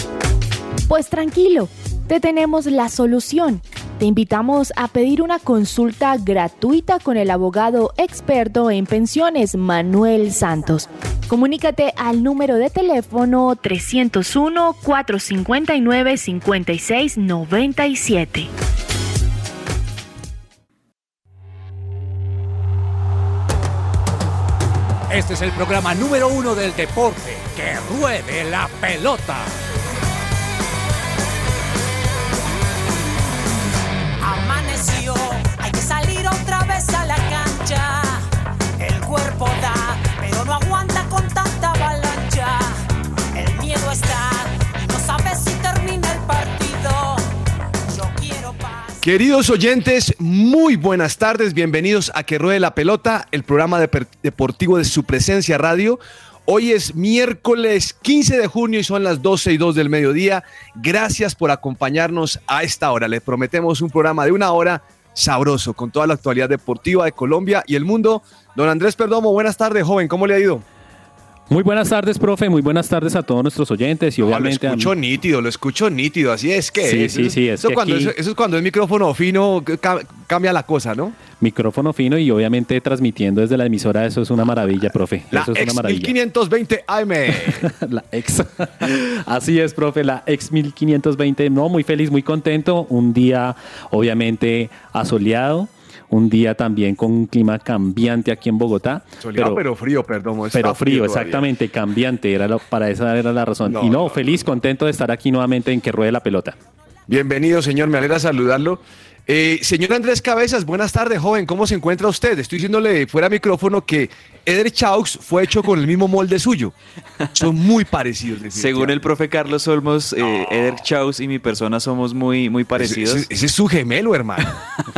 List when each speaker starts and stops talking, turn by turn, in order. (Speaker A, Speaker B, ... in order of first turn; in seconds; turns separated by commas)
Speaker A: 0.9-18.5, Speaker B: 25.1-29.6, Speaker C: 34.2-38.2, Speaker C: 38.8-42.8, Speaker C: 43.3-47.2, Speaker C: 47.9-49.1, Speaker D: 49.0-70.7, Speaker E: 71.5-74.9, Speaker D: 74.2-81.2, Speaker E: 76.8-78.1, Speaker E: 81.4-86.1, Speaker D: 85.3-87.7, Speaker E: 87.4-99.6, Speaker D: 99.2-101.5, Speaker E: 100.5-106.6, Speaker D: 103.7-104.4, Speaker D: 107.1-116.7, Speaker D: 117.3-119.0, Speaker F: 118.5-123.3, Speaker D: 122.8-124.6